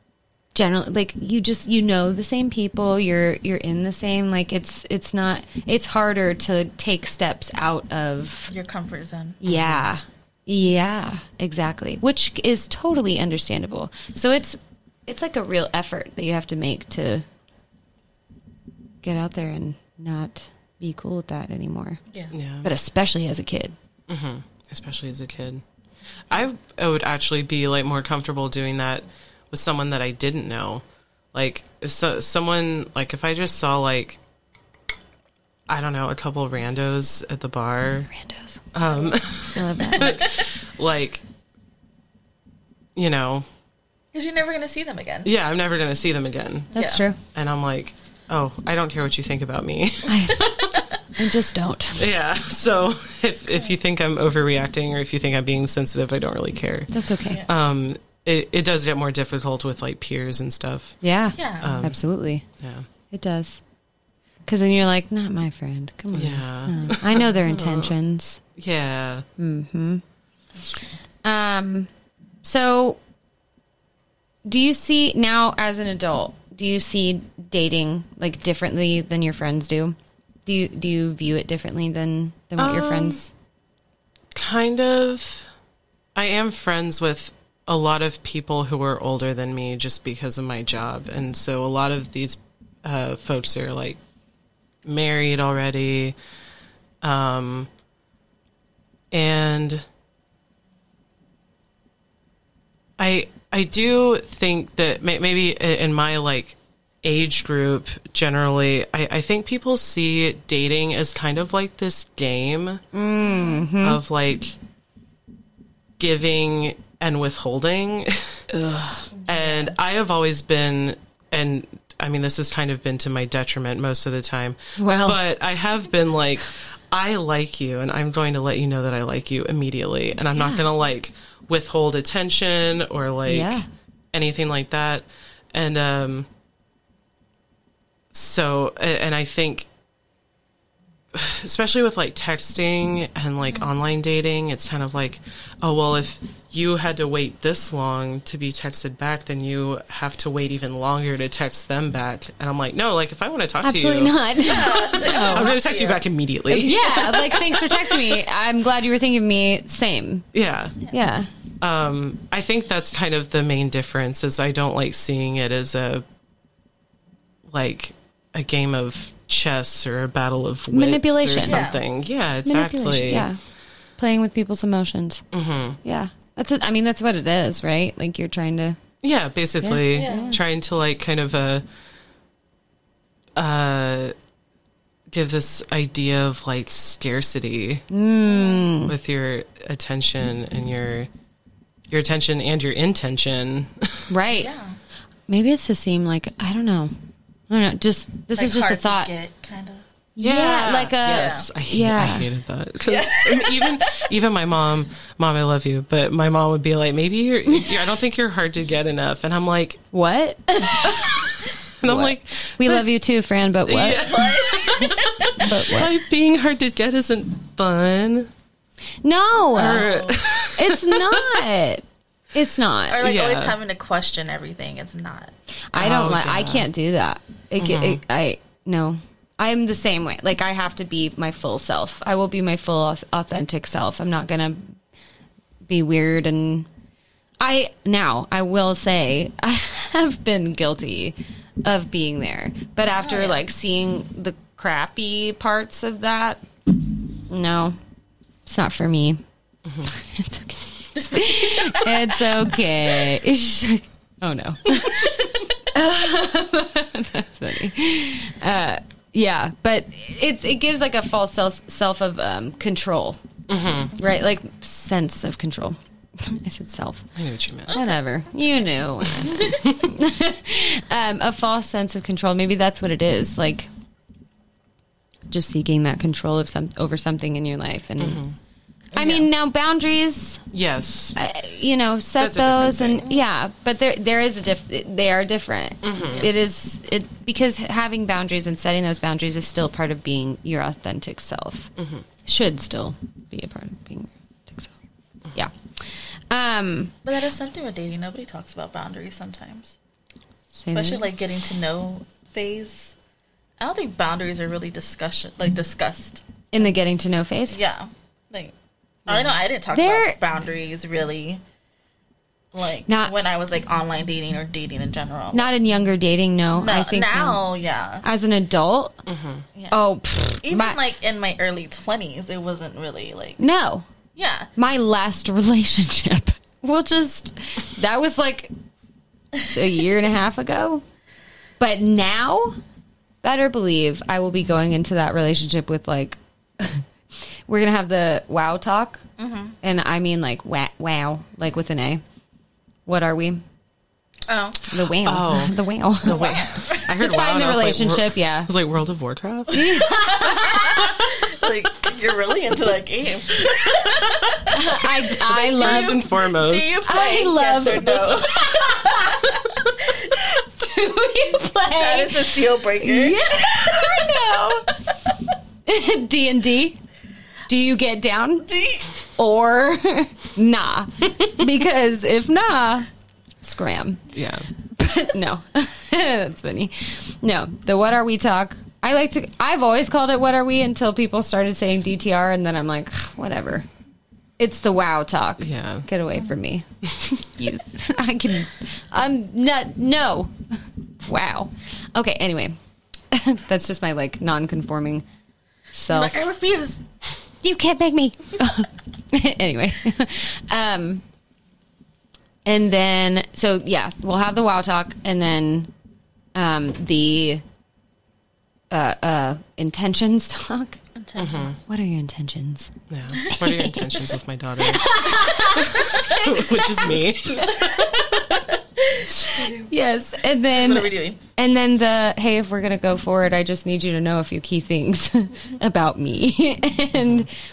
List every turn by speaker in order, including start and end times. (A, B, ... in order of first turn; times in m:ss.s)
0:00.6-0:08.5 A
0:08.5-0:09.4 B
0:09.4-0:17.2 A
0:09.5-0:09.9 C
0:19.0-0:22.0 A
0:22.3-0:22.7 C
0:22.6-0:23.8 A
0:24.1-0:25.6 C
0:26.3-0:34.2 C
0:35.7-0:38.1 C
0:38.1-0:38.6 A
0:38.7-0:41.2 C
0:38.9-0:39.2 B
0:39.6-0:40.2 A
0:39.7-0:40.3 B
0:43.0-0:43.5 C
0:44.1-0:45.3 B
0:45.2-0:46.8 C
0:46.7-0:47.0 B
0:46.8-0:47.2 A
0:47.3-0:50.8 C
0:50.1-0:52.1 A
0:51.9-0:56.9 C
0:56.9-0:57.4 A
0:57.4-1:01.0 C
1:01.0-1:02.4 A
1:01.4-1:01.8 B
1:01.6-1:02.0 C
1:02.6-1:02.9 C
1:03.1-1:03.6 A
1:04.5-1:08.4 A
1:06.1-1:07.9 C
1:08.6-1:09.3 C
1:09.4-1:10.0 A
1:11.2-1:11.9 A
1:12.4-1:13.0 A
1:14.4-1:23.3 A
1:22.6-1:23.2 C
1:24.3-1:25.5 C
1:26.2-1:34.0 C
1:34.8-1:36.2 C
1:37.0-1:37.7 C
1:39.1-1:39.8 C
1:43.0-1:52.8 C
1:52.9-1:54.0 A
1:53.3-1:53.6 B
1:53.8-1:54.6 C
1:56.0-1:58.5 C
1:58.5-1:59.1 A
1:59.1-1:59.8 B
1:59.3-2:16.3 C
2:04.8-2:05.2 A
2:10.4-2:10.6 A
2:13.3-2:13.7 A
2:18.1-2:19.7 C
2:21.1-2:34.2 C
2:33.6-2:35.6 A
2:34.4-2:36.0 B
2:34.9-2:38.2 C
2:36.5-2:40.3 A
2:40.3-2:40.8 C
2:40.9-2:41.3 A
2:41.6-2:46.0 C
2:47.5-2:53.3 C
2:50.7-2:51.6 A
2:51.4-2:51.8 B
2:52.4-2:53.4 A
2:54.0-2:55.2 A
2:55.3-2:55.8 C
2:55.8-2:58.8 A
2:59.0-3:01.6 C
2:59.6-3:00.4 A
2:59.9-3:00.4 B
3:03.4-3:04.1 C
3:05.1-3:07.9 C
3:07.9-3:09.0 A
3:08.3-3:08.7 B
3:08.8-3:11.1 C
3:11.9-3:14.1 C
3:14.1-3:14.5 A
3:14.3-3:14.8 B
3:15.3-3:16.9 A
3:17.5-3:19.1 A
3:18.3-3:19.8 B
3:20.2-3:22.3 A
3:20.2-3:29.8 C
3:21.0-3:21.5 B
3:22.8-3:24.1 B
3:29.9-3:34.3 A
3:30.8-3:32.9 C
3:33.7-3:38.3 C
3:33.9-3:35.5 B
3:34.8-3:36.0 A
3:39.0-3:39.9 A
3:39.5-3:41.4 C
3:39.6-3:40.2 B
3:40.5-3:43.0 A
3:42.9-3:45.3 B
3:43.0-3:43.6 C
3:45.7-3:54.8 A
3:45.7-3:46.7 C
3:47.6-3:48.0 C
3:55.7-3:56.7 A
3:57.4-4:07.8 A
4:03.0-4:03.4 B
4:08.5-4:09.2 A
4:09.6-4:09.9 C
4:09.9-4:23.2 A
4:11.0-4:12.6 B
4:23.5-4:24.0 C
4:24.0-4:27.1 A
4:27.2-4:27.8 C
4:27.7-4:33.7 A
4:27.7-4:28.0 B
4:29.0-4:29.9 C
4:35.3-4:38.2 A
4:38.0-4:38.4 C
4:38.9-4:39.3 B
4:39.0-4:40.4 A
4:40.5-4:41.2 C
4:41.2-4:51.7 A
4:42.2-4:43.1 C
4:45.8-4:46.3 C
4:46.0-4:46.3 B
4:51.8-4:52.0 C
4:52.2-4:54.7 A
4:55.3-4:57.0 A
4:57.0-4:59.8 B
5:00.5-5:01.1 A
5:00.7-5:03.0 B
5:03.6-5:06.7 B
5:06.5-5:07.6 A
5:07.5-5:08.5 B
5:09.1-5:11.4 B
5:09.1-5:09.3 C
5:09.7-5:10.2 A
5:12.5-5:15.5 B
5:12.9-5:13.1 A
5:15.3-5:17.4 A
5:16.5-5:18.0 B
5:18.0-5:19.0 A
5:19.1-5:19.4 C
5:19.7-5:20.8 A
5:20.4-5:23.4 B
5:23.4-5:23.9 A
5:24.2-5:24.5 B
5:24.6-5:28.5 A
5:29.4-5:30.8 A
5:31.6-5:32.6 A
5:33.2-5:36.8 A
5:37.5-5:39.0 A
5:39.2-5:39.6 B
5:39.6-5:42.0 A
5:42.9-5:43.4 A
5:44.3-5:44.8 B
5:44.7-5:46.3 A
5:45.0-5:49.9 C
5:46.0-5:46.9 B
5:46.8-5:48.5 A
5:49.5-5:50.9 A
5:50.0-6:00.3 B
5:54.5-5:56.0 A
5:55.3-5:56.9 C
5:56.9-5:59.4 A
6:00.1-6:04.8 A
6:01.7-6:04.2 B
6:05.7-6:06.8 A
6:07.5-6:08.5 A
6:08.4-6:08.9 B
6:09.2-6:12.9 A
6:13.4-6:14.1 A
6:14.1-6:14.5 C
6:14.6-6:23.7 A
6:24.4-6:30.3 A
6:25.4-6:25.9 C
6:31.0-6:32.6 A
6:33.1-6:35.0 A
6:35.7-6:36.3 A
6:35.9-6:36.8 B
6:37.4-6:41.0 A
6:42.4-6:45.7 A
6:46.4-6:47.4 A
6:48.7-6:50.8 A
6:51.0-6:51.5 B
6:51.2-6:51.6 C
6:51.7-6:54.0 A
6:52.9-6:58.0 C
6:54.6-6:57.0 A
6:57.3-6:59.7 B
6:59.1-7:07.3 A
7:00.5-7:01.2 B
7:07.0-7:07.3 C